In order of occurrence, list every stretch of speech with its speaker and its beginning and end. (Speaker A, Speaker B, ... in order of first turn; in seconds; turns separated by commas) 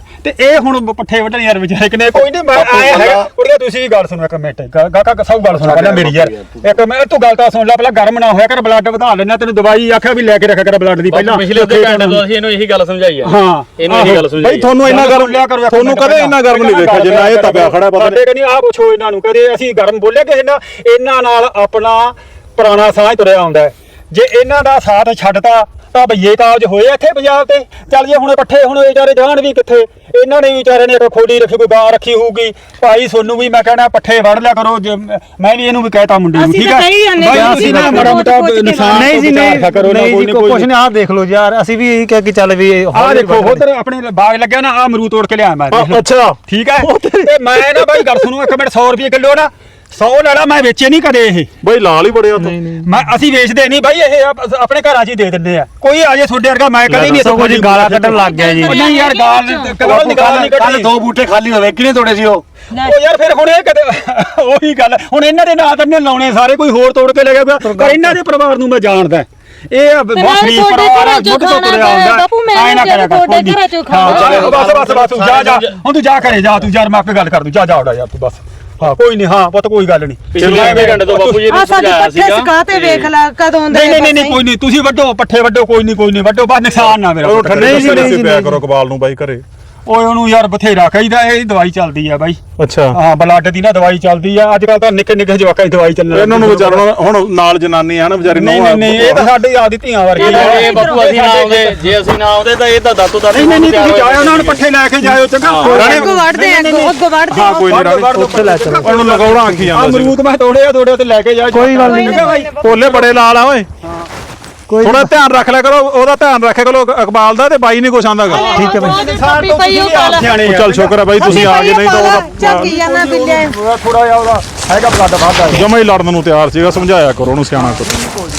Speaker A: 0.2-12.3, Speaker B: 2.5-3.3, Speaker B: 5.5-6.7, Speaker C: 11.1-14.8, Speaker A: 13.2-14.2, Speaker D: 13.9-18.2, Speaker A: 14.8-40.7, Speaker E: 36.3-39.1, Speaker F: 37.3-38.1, Speaker F: 38.9-43.6, Speaker A: 42.9-51.5, Speaker D: 45.7-48.2, Speaker D: 51.6-52.5, Speaker F: 52.4-52.9, Speaker A: 52.8-60.9, Speaker F: 57.0-58.8, Speaker E: 58.1-59.8, Speaker B: 59.8-62.4, Speaker E: 62.7-63.0, Speaker A: 62.7-81.6, Speaker F: 67.6-68.2, Speaker E: 70.1-74.4, Speaker C: 74.1-75.8, Speaker C: 80.3-83.1, Speaker D: 80.4-81.0, Speaker E: 81.5-84.4, Speaker A: 83.7-88.5, Speaker D: 87.2-89.4, Speaker F: 87.6-88.4, Speaker A: 89.8-92.4, Speaker D: 92.6-93.0, Speaker A: 92.9-96.9, Speaker D: 96.1-99.3, Speaker A: 98.2-101.9, Speaker D: 100.2-100.8, Speaker E: 100.2-101.0, Speaker C: 100.2-104.6, Speaker A: 103.3-113.1, Speaker C: 105.4-105.8, Speaker E: 105.6-107.9, Speaker D: 105.7-106.2, Speaker D: 107.3-108.2, Speaker F: 108.1-109.7, Speaker D: 108.8-110.2, Speaker F: 111.5-112.3, Speaker E: 111.8-112.5, Speaker D: 112.6-113.7, Speaker F: 114.7-115.1, Speaker D: 114.8-118.5, Speaker E: 118.3-120.4, Speaker A: 118.3-121.6, Speaker F: 118.4-119.0, Speaker D: 120.3-122.8, Speaker E: 121.2-123.5, Speaker A: 122.2-125.7, Speaker D: 125.5-127.9